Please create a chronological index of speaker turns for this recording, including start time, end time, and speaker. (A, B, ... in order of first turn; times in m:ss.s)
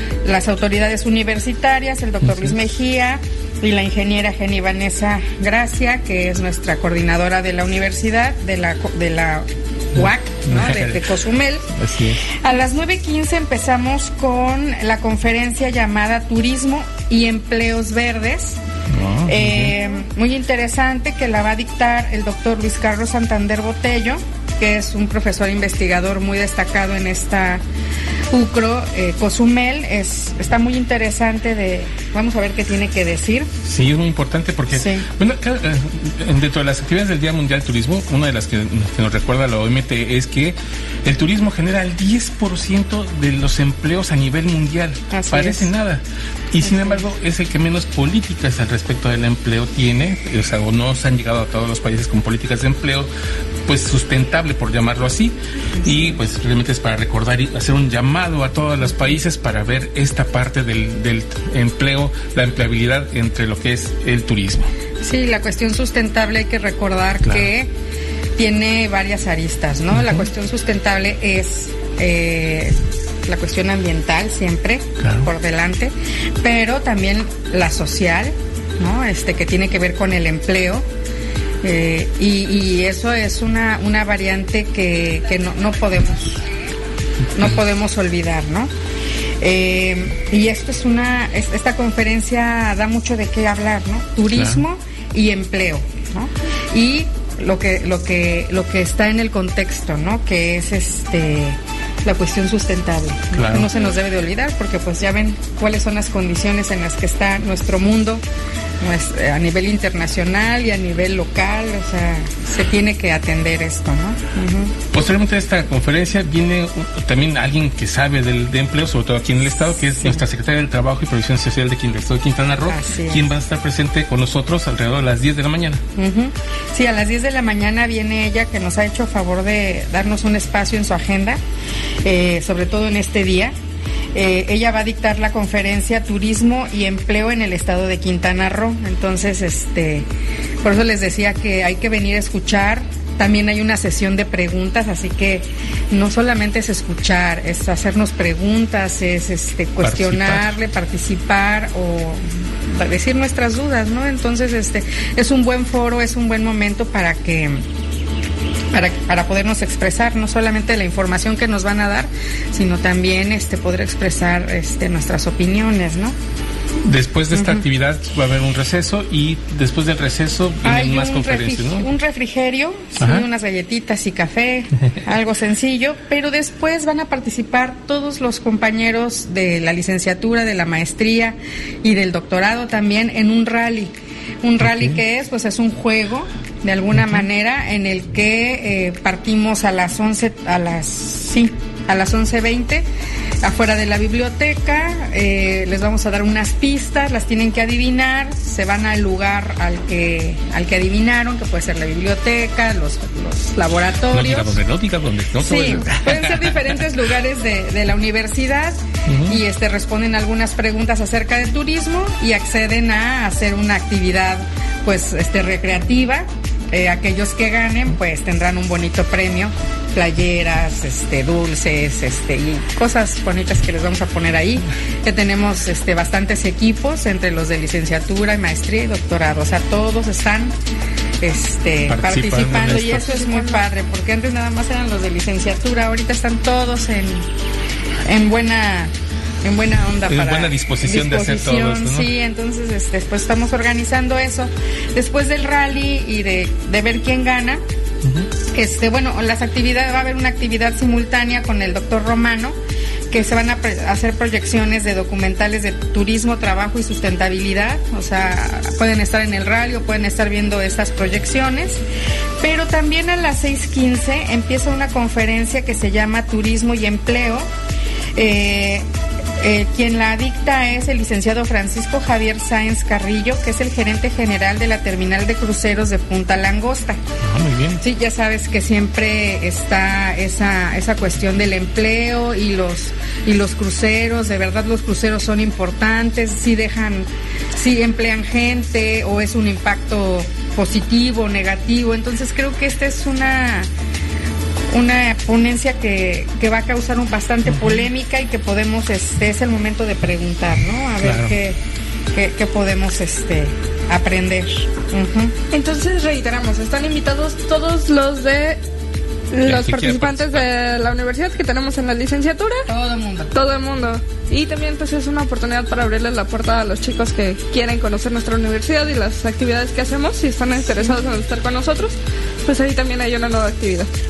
0:00.2-0:11.7 A
0:02.2-0:02.5 B
0:10.0-0:11.0 B
0:11.7-0:12.2 B
0:12.3-0:18.6 A
0:18.9-0:19.7 B
0:19.3-0:27.6 A
0:28.3-0:33.5 A
0:33.6-0:53.1 B
0:34.7-0:35.1 A
0:45.1-0:45.7 A
0:46.6-0:47.0 A
0:53.7-1:04.7 B
0:55.8-0:56.1 A
1:05.0-1:07.7 A
1:07.2-1:07.5 B
1:08.4-1:20.9 A
1:09.9-1:10.3 B
1:15.0-1:15.3 B
1:21.6-1:26.5 A
1:27.4-1:28.7 A
1:29.4-1:48.2 A
1:34.3-1:34.6 B
1:43.3-1:43.7 B
1:48.8-1:54.7 A
1:54.9-2:05.8 B
2:02.7-2:03.3 A
2:06.0-2:11.4 A
2:12.0-2:13.6 A
2:14.1-2:20.1 A
2:20.6-2:37.6 A
2:29.8-2:30.6 B
2:38.7-2:46.2 A
2:46.8-2:51.9 B
2:47.3-2:47.6 A
2:50.6-3:12.9 A
2:53.0-2:53.3 B
3:04.6-3:05.0 B
3:06.9-3:07.3 B
3:13.4-3:24.6 A
3:24.1-3:26.9 B
3:25.4-3:50.6 A
3:29.1-3:29.4 B
3:51.2-3:57.3 A
3:51.9-3:53.2 B
3:52.9-3:53.6 C
3:58.0-3:58.9 A
3:59.4-4:07.6 A
4:00.1-4:02.1 B
4:08.5-4:12.6 A
4:13.1-4:21.8 A
4:22.4-4:27.5 A
4:28.2-4:28.9 A
4:29.4-4:37.0 A
4:37.2-4:37.8 B
4:37.8-4:53.7 A
4:54.7-5:01.6 A
4:57.5-4:57.9 B
5:01.0-5:01.4 B
5:02.1-5:05.4 A
5:05.5-5:08.6 C
5:09.3-5:12.6 C
5:09.4-5:10.5 B
5:12.7-5:13.3 A
5:13.3-5:23.9 C
5:20.6-5:21.2 A